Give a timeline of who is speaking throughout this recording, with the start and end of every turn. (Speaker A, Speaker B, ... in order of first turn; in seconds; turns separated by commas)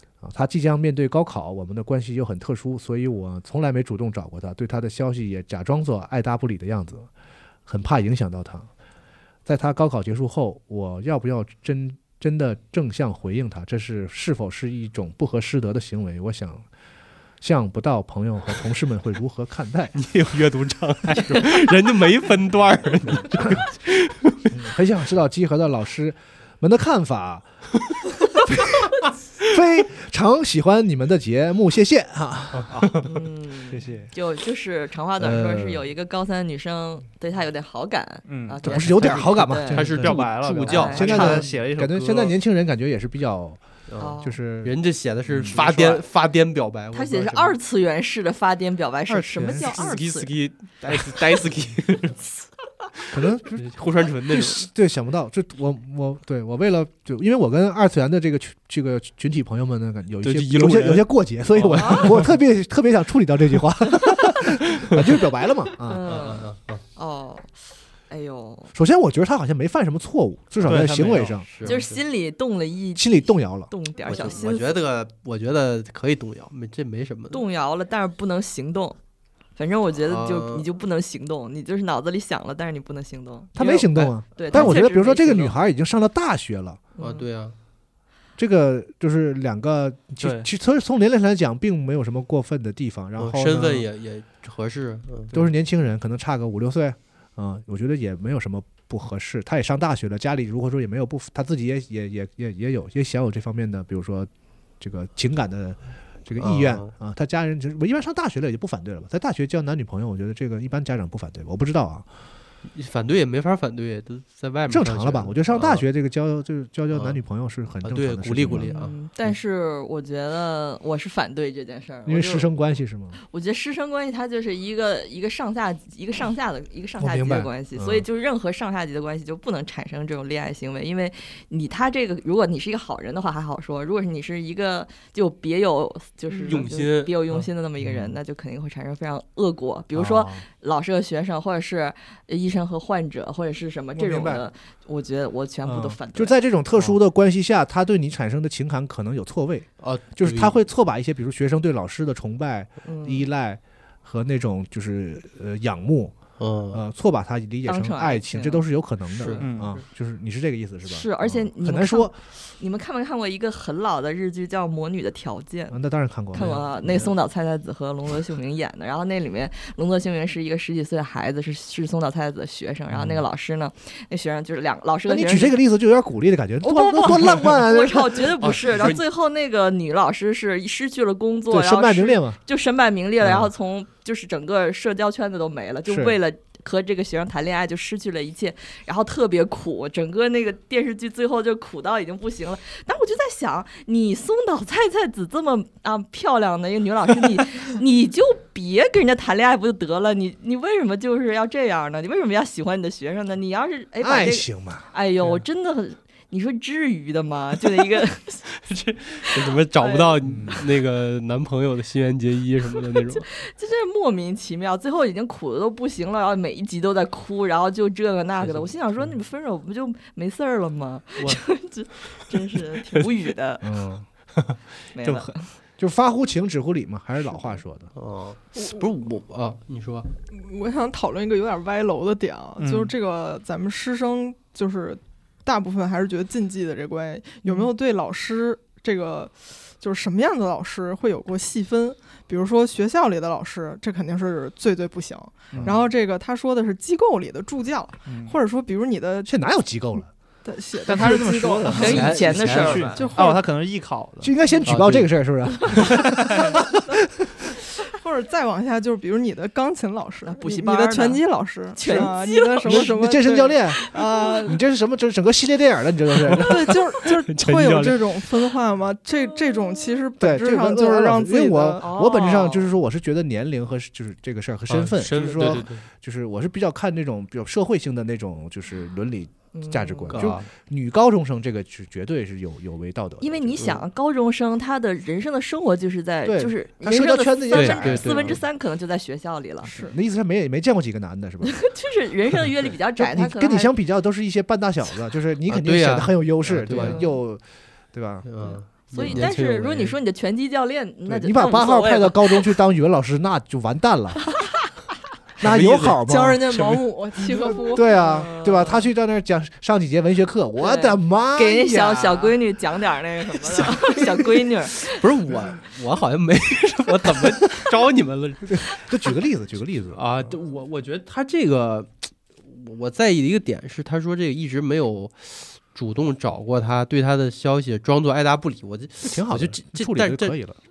Speaker A: 0.2-7.1, Speaker A: 7.7-8.7, Speaker A: 9.5-16.7, Speaker A: 17.4-20.0, Speaker B: 20.0-24.6, Speaker A: 24.5-27.5, Speaker A: 28.5-28.9, Speaker A: 29.4-32.7, Speaker B: 32.5-33.0, Speaker C: 32.7-33.1, Speaker D: 33.0-39.8, Speaker C: 33.7-34.1, Speaker B: 35.2-35.8, Speaker C: 38.3-42.4, Speaker A: 38.6-43.6, Speaker B: 39.7-41.5, Speaker D: 40.7-41.4, Speaker B: 43.9-47.6, Speaker D: 44.0-44.4, Speaker A: 44.2-44.7, Speaker C: 45.3-46.0, Speaker A: 45.3-45.7, Speaker D: 46.9-51.4, Speaker A: 49.1-50.0, Speaker B: 49.4-52.2, Speaker B: 53.1-54.7, Speaker A: 53.1-53.7, Speaker A: 54.5-66.1, Speaker B: 60.2-62.3, Speaker D: 61.8-62.0, Speaker D: 65.9-67.5, Speaker B: 66.0-66.8, Speaker D: 68.1-68.7, Speaker A: 68.7-71.5, Speaker C: 70.6-71.7, Speaker B: 71.5-71.9, Speaker D: 71.7-74.8, Speaker A: 73.0-73.7, Speaker B: 74.1-77.4, Speaker D: 77.3-79.0, Speaker D: 79.6-85.5, Speaker B: 80.1-80.7, Speaker A: 83.6-86.8, Speaker B: 84.0-84.8, Speaker D: 87.0-87.3, Speaker B: 87.0-87.5, Speaker A: 88.4-93.9, Speaker C: 90.2-90.5, Speaker B: 93.2-95.5, Speaker A: 95.3-112.1, Speaker B: 106.4-106.9, Speaker B: 112.7-115.8, Speaker A: 114.7-118.7, Speaker B: 116.9-117.2, Speaker B: 117.8-119.0, Speaker D: 118.7-122.5, Speaker A: 122.1-123.2, Speaker D: 123.3-146.3, Speaker A: 127.0-128.1, Speaker E: 136.3-136.7, Speaker B: 136.4-137.2, Speaker A: 137.8-138.1, Speaker A: 139.9-140.4, Speaker A: 143.9-144.5, Speaker A: 145.6-156.2, Speaker B: 149.8-150.6, Speaker D: 152.8-153.3, Speaker B: 156.4-156.8, Speaker A: 156.7-162.2, Speaker D: 157.7-158.7, Speaker B: 159.2-159.5, Speaker C: 159.4-159.8, Speaker D: 160.8-165.8, Speaker A: 165.7-166.6, Speaker D: 166.3-175.6, Speaker B: 166.4-167.1, Speaker A: 175.1-178.3, Speaker D: 176.6-208.4, Speaker B: 178.4-179.0, Speaker A: 181.5-182.4, Speaker A: 185.9-186.2, Speaker A: 204.0-204.9, Speaker B: 208.6-213.2, Speaker D: 209.2-210.6, Speaker A: 210.2-210.6, Speaker D: 213.1-223.7, Speaker B: 218.4-218.8, Speaker A: 223.6-224.1, Speaker D: 224.9-225.5, Speaker A: 225.8-227.9, Speaker B: 227.9-230.1, Speaker E: 230.3-249.3, Speaker C: 232.6-232.9, Speaker D: 237.4-237.7, Speaker C: 245.5-245.9, Speaker C: 248.1-248.4, Speaker A: 249.2-250.1, Speaker E: 250.4-252.3, Speaker C: 250.8-254.3, Speaker D: 251.7-253.1, Speaker B: 251.8-252.9, Speaker E: 252.9-253.5, Speaker A: 254.2-256.9, Speaker B: 254.7-255.1, Speaker C: 255.9-256.5, Speaker E: 257.9-264.6, Speaker D: 260.2-261.2, Speaker D: 261.8-263.0, Speaker A: 262.6-266.7, Speaker D: 263.7-264.5, Speaker B: 266.3-266.6, Speaker E: 266.4-271.9, Speaker B: 267.3-268.1, Speaker D: 269.4-269.9, Speaker A: 270.2-283.6, Speaker D: 271.8-272.7, Speaker B: 274.7-275.8, Speaker D: 279.5-280.3, Speaker B: 280.1-280.5, Speaker D: 283.2-289.7, Speaker A: 286.3-288.4, Speaker B: 287.5-288.4, Speaker E: 289.6-290.0, Speaker A: 289.7-291.6, Speaker D: 291.4-293.7, Speaker A: 293.0-297.4, Speaker B: 295.5-297.0, Speaker D: 296.8-297.2, Speaker A: 297.9-298.3, Speaker B: 298.3-300.0, Speaker D: 298.4-302.6, Speaker A: 299.0-299.3, Speaker A: 301.1-304.3, Speaker A: 305.4-306.5, Speaker B: 305.4-306.9, Speaker E: 306.1-308.3, Speaker D: 307.4-308.9, Speaker A: 307.5-312.4, Speaker D: 310.6-314.9, Speaker B: 314.8-318.8, Speaker A: 318.5-320.0, Speaker B: 319.9-330.4, Speaker A: 329.0-330.6